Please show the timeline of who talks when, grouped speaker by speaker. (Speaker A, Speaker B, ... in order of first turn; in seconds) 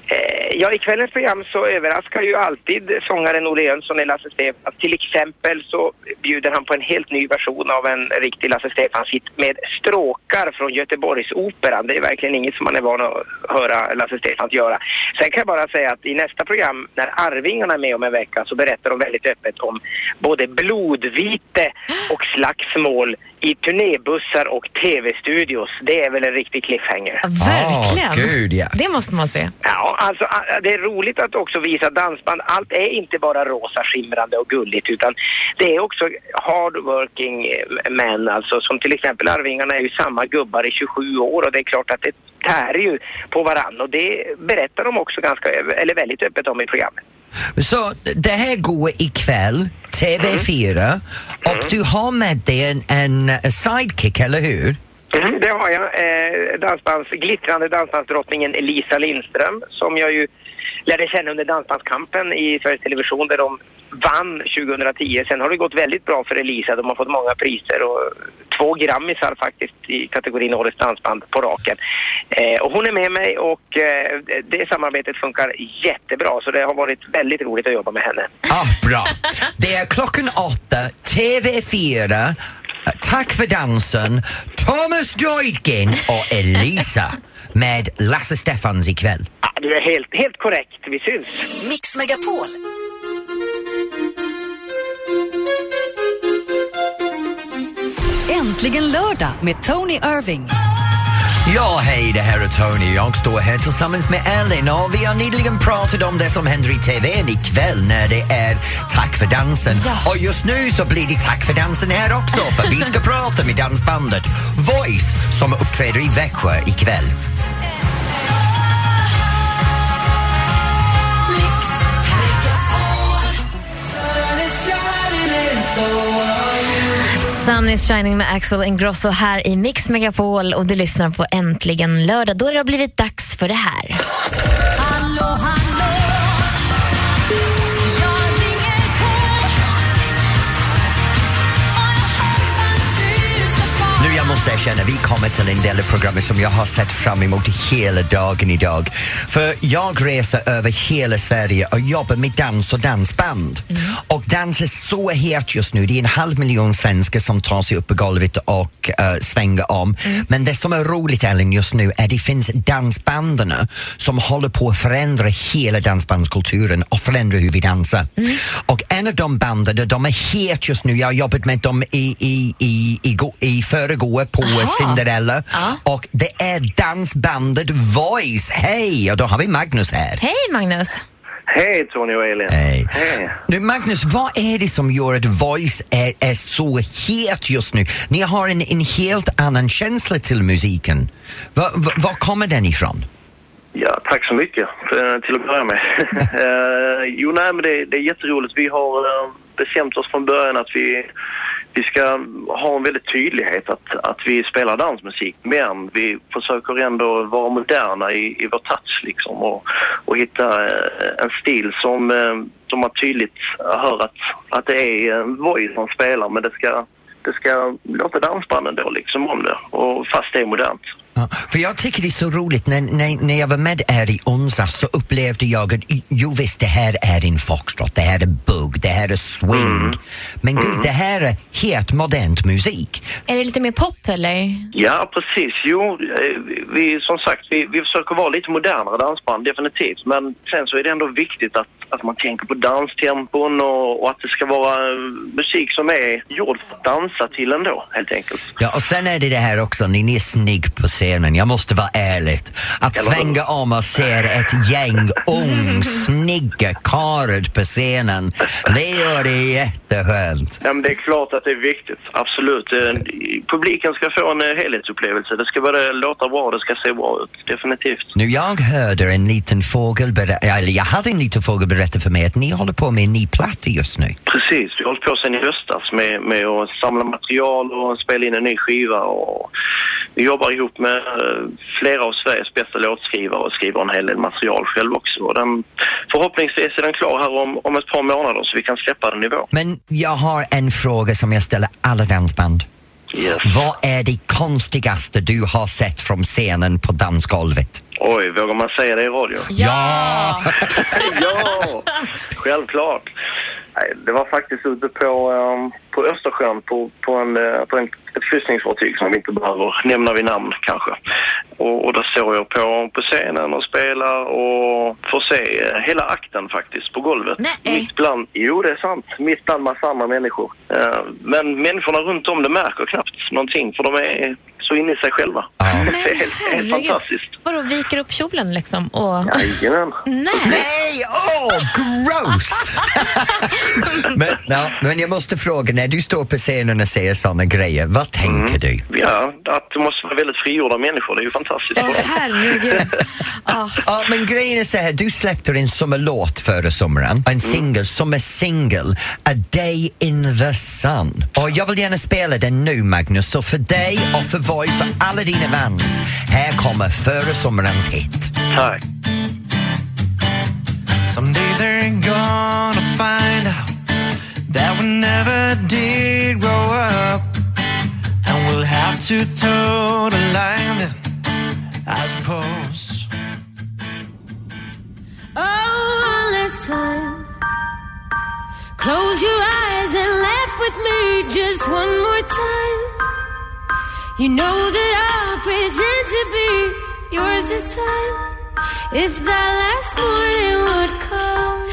Speaker A: 0.1-27.2, 29.6-47.0, 55.1-60.3, 60.9-71.8, 72.3-78.4, 89.4-91.5
Speaker B: 27.2-29.5, 127.1-134.0, 174.4-175.0, 175.5-175.8, 180.2-181.0, 233.3-234.7, 299.5-300.5, 317.4-317.9, 325.8-329.5, 330.1-330.6, 341.8-343.8
Speaker C: 27.4-28.8, 47.6-54.8, 78.5-89.3, 101.4-117.1, 143.9-180.2, 182.5-193.1, 221.2-233.1, 248.6-260.6, 268.1-274.2, 289.5-292.7, 293.4-297.8, 299.5-301.1, 325.6-325.9, 330.4-338.8, 343.8-358.3
Speaker D: 92.1-92.4, 124.2-126.4, 361.0-363.7, 364.5-367.3, 368.2-370.9, 371.9-373.1
Speaker E: 98.3-100.5, 375.6-375.9, 379.6-382.4, 384.2-388.1, 388.9-391.4
Speaker F: 181.5-183.4, 193.7-201.1, 201.7-220.8, 229.5-230.0, 230.6-230.9, 234.7-248.5, 252.9-253.4, 260.6-268.1, 274.3-279.5, 280.1-289.5, 293.1-293.6, 298.0-299.5, 300.8-303.1, 303.8-310.9, 311.6-327.3, 329.2-330.0, 338.2-342.8, 358.5-358.8
Speaker G: 375.4-377.2, 378.8-382.9, 384.2-388.1, 389.0-391.5